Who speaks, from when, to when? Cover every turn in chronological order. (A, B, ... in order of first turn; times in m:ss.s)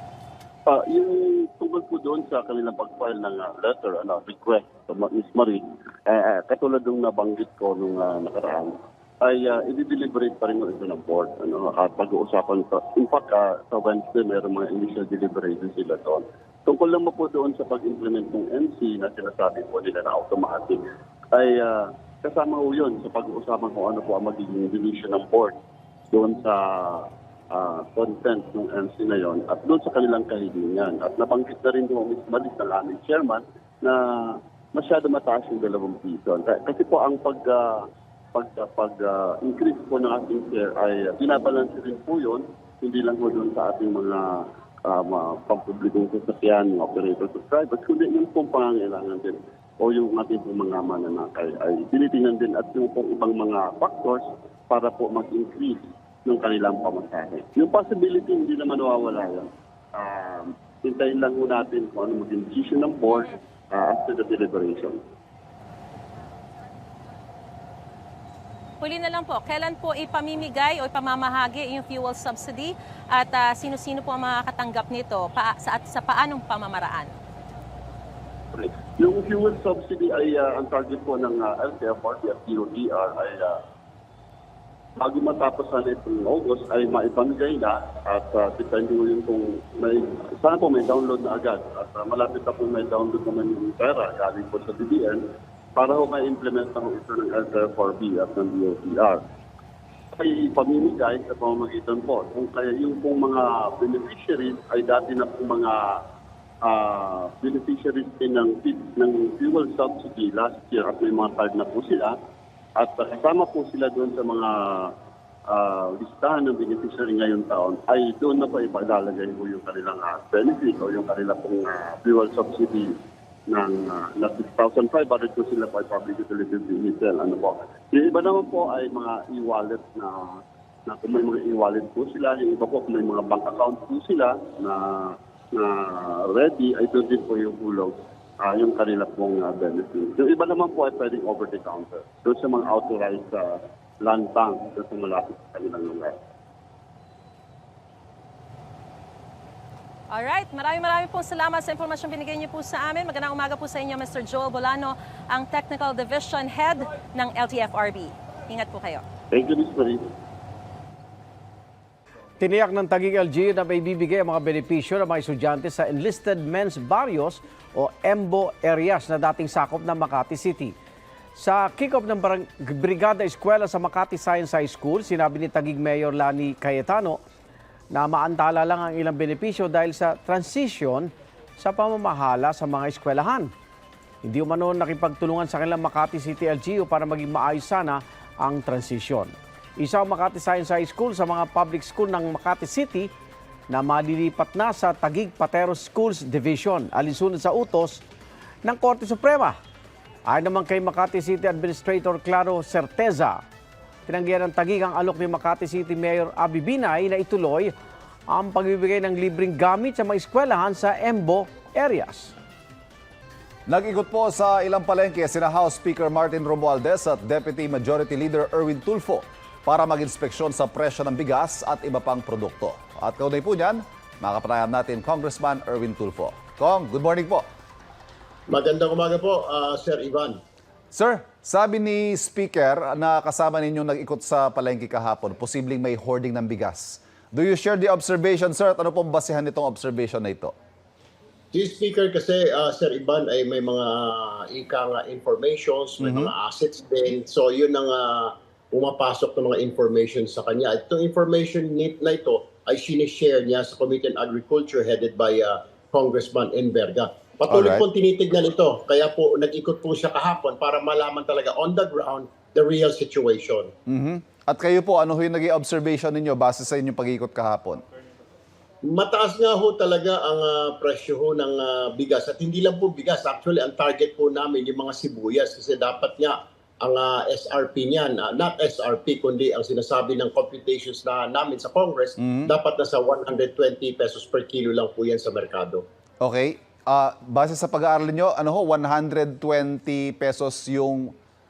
0:00.7-0:25.5 A
0:26.1-0:37.7 A
0:38.3-1:05.0 A
1:08.8-1:17.1 B
1:18.6-1:23.6 A
1:25.0-1:35.2 A
1:35.8-1:39.2 A
1:40.1-1:46.0 A
1:46.6-1:52.2 A
1:52.8-1:54.9 A
1:55.5-2:02.9 A
2:03.5-2:26.2 A
2:30.1-2:39.0 B
2:39.3-2:40.0 A
2:42.4-2:50.7 C
2:51.4-2:57.2 C
2:57.9-3:03.5 C
3:04.2-3:13.1 C
3:13.7-3:18.0 C
3:18.6-3:19.6 C
3:20.3-3:23.4 C
3:24.1-3:27.7 C
3:28.3-3:32.3 C
3:33.7-3:47.5 D
3:48.5-3:50.4 E
3:50.9-4:00.5 D
4:01.5-4:23.7 E
4:06.0-4:06.3 D
4:17.5-4:17.8 D
4:23.9-4:27.8 D
4:28.9-4:45.8 E
4:42.2-4:42.5 D
4:46.2-4:51.1 D